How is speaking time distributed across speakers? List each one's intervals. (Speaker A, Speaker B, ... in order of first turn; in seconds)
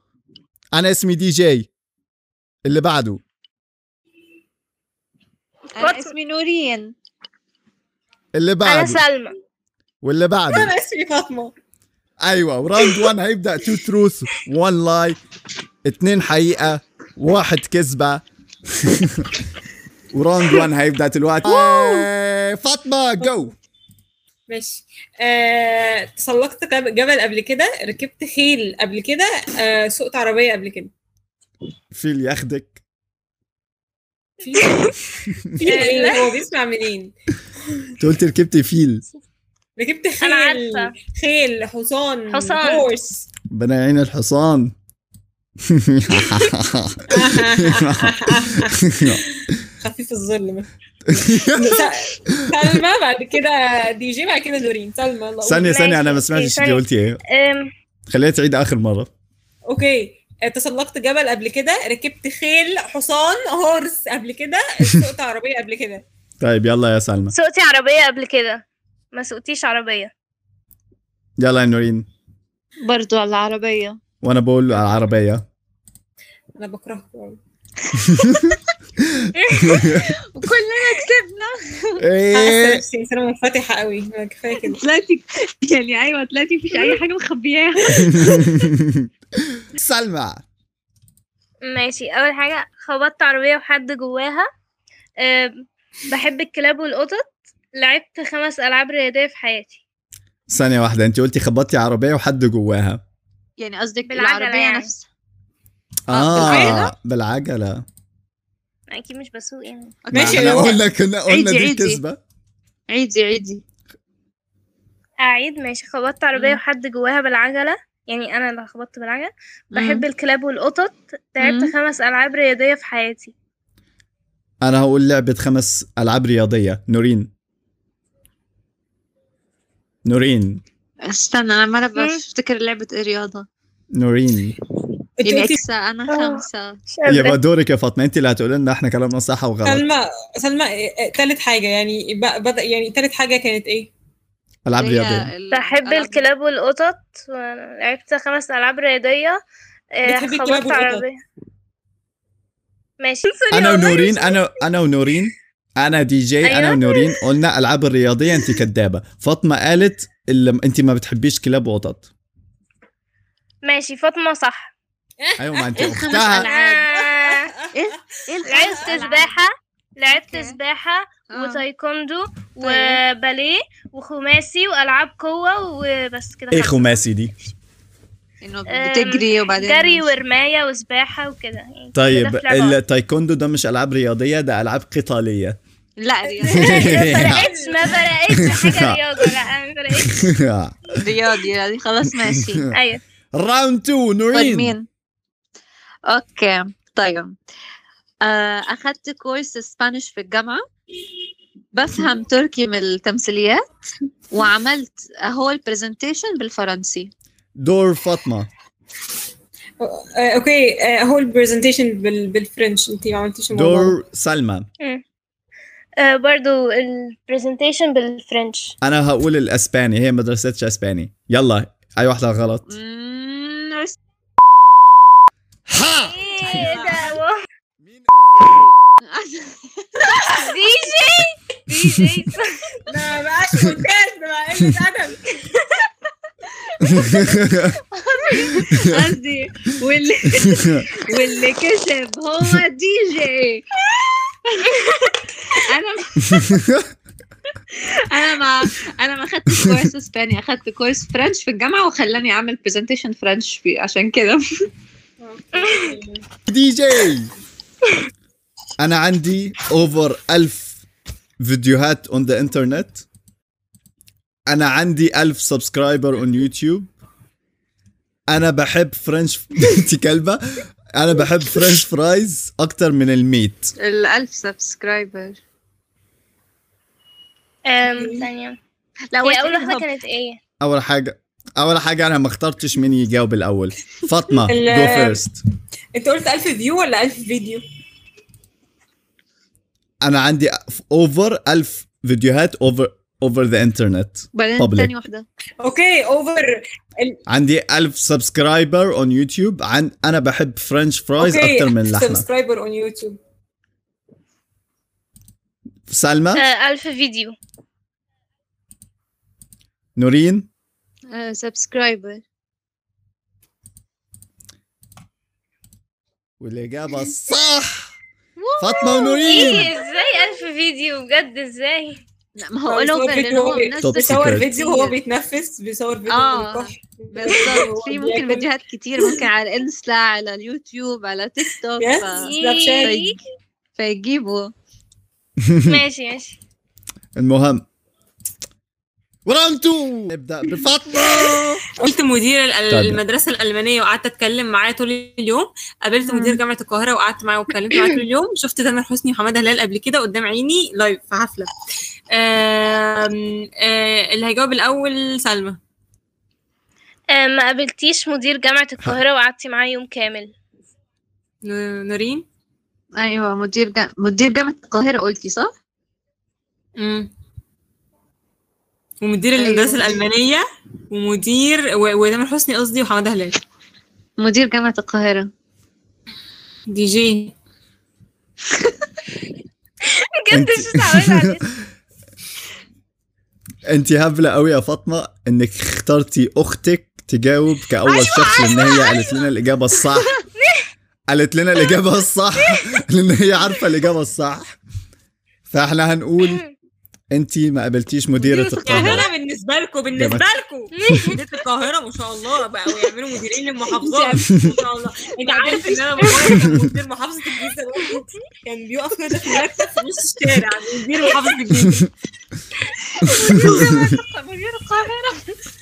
Speaker A: 0.7-1.7, 2.6-3.2, 8.3-9.0, 10.0-10.7, 12.2-15.2, 15.8-18.2, 18.8-19.3, 20.1-23.5, 31.9-32.8, 38.0-39.1, 43.5-44.7, 45.7-49.2, 51.1-52.4, 55.5-57.2, 58.1-59.1, 66.4-67.3, 71.4-72.1, 74.2-75.4, 78.1-78.5, 79.0-80.1, 82.0-82.8, 88.2-89.1, 89.7-90.4, 100.5-103.0, 106.1-107.8, 110.1-112.2, 124.6-127.3, 130.0-130.6, 133.9-134.5, 137.1-139.8, 144.6-145.3, 153.5-162.1, 165.4-166.5, 176.5-177.3, 181.9-185.6, 186.5-187.5, 188.3-189.4, 190.0-190.8, 193.3-194.7, 207.6-208.5, 213.5-214.7, 218.8-222.7, 225.7-226.1, 227.8-228.7, 236.8-237.8, 238.5-239.0, 246.3-246.8, 256.5-257.3, 258.8-260.8, 261.4-263.1, 264.5-266.9, 268.3-270.4, 270.9-273.7, 280.6-285.4, 290.0-294.9, 297.3-302.2, 305.9-306.4, 310.0-310.5, 316.4-317.9, 318.6-319.7, 323.8-324.4, 335.5-335.8, 337.2-337.6, 339.2-341.6, 342.7-343.0, 380.3-381.3, 383.7-390.1, 391.1-394.6, 395.5-396.4, 397.1-399.1, 399.9-400.2
Speaker B: 5.7-6.9, 21.4-22.1, 72.8-74.0, 80.3-82.0, 84.6-88.6, 103.6-105.1, 106.1-106.9, 110.0-110.7, 111.3-112.0, 112.9-113.6, 116.3-116.6, 119.7-120.0, 121.4-121.7, 131.1-133.5, 135.2-136.8, 144.7-146.2, 165.8-166.8, 167.7-169.4, 170.1-170.6, 171.3-171.6, 172.6-173.0, 178.4-180.1, 186.0-186.7, 191.0-192.6, 194.3-194.9, 196.1-197.3, 198.2-200.6, 201.7-203.6, 204.3-207.1, 222.7-224.0, 226.4-227.2, 229.1-230.1, 238.2-243.6, 244.6-246.5, 247.7-254.4, 273.8-275.4, 279.1-279.9, 294.3-295.3, 311.1-312.2, 318.4-319.0, 322.4-324.9, 326.1-333.2, 333.8-334.5, 346.1-346.4, 363.0-365.5, 369.4-370.0, 374.2-375.3, 398.2-399.0, 403.7-404.3, 405.2-406.4, 412.9-415.2
Speaker C: 5.8-6.1, 8.6-9.3, 35.6-36.3, 40.2-40.9, 42.3-42.8, 55.5-57.7, 67.3-70.1, 79.5-80.0, 91.7-94.5, 95.2-95.5, 96.1-99.8, 104.1-104.9, 108.9-110.0, 115.2-123.3, 131.9-132.2, 136.1-136.4, 136.9-137.4, 145.5-149.4, 150.0-151.2, 153.0-154.4, 156.4-157.1, 163.6-164.7, 166.3-167.5, 168.4-177.5, 178.7-182.8, 186.6-190.3, 192.7-193.0, 216.0-218.7, 225.9-227.4, 230.2-232.6, 255.6-255.9, 277.7-278.6, 279.2-280.4, 306.4-307.4, 318.8-322.0, 332.1-333.2, 335.6-336.4, 357.1-360.3, 380.1-381.5, 388.2-388.9, 396.2-396.5, 400.7-401.2
Speaker D: 10.5-11.5, 24.5-30.9, 34.4-35.0, 35.6-37.1, 39.8-43.3, 47.1-55.6, 59.7-66.0, 76.6-77.4, 82.3-84.8, 106.4-106.8, 110.1-110.8, 135.2-135.6, 139.6-143.9, 150.1-151.0, 165.2-167.5, 186.3-188.5, 209.8-213.9, 226.6-227.1, 232.8-235.4, 255.2-256.2, 277.9-278.3, 284.5-285.2, 285.9-287.6, 295.6-297.1, 301.2-303.2, 322.6-328.5, 331.8-332.9, 341.0-351.5, 352.1-355.6, 361.4-362.2, 366.8-367.1, 369.0-373.4, 376.7-377.3, 398.6-411.9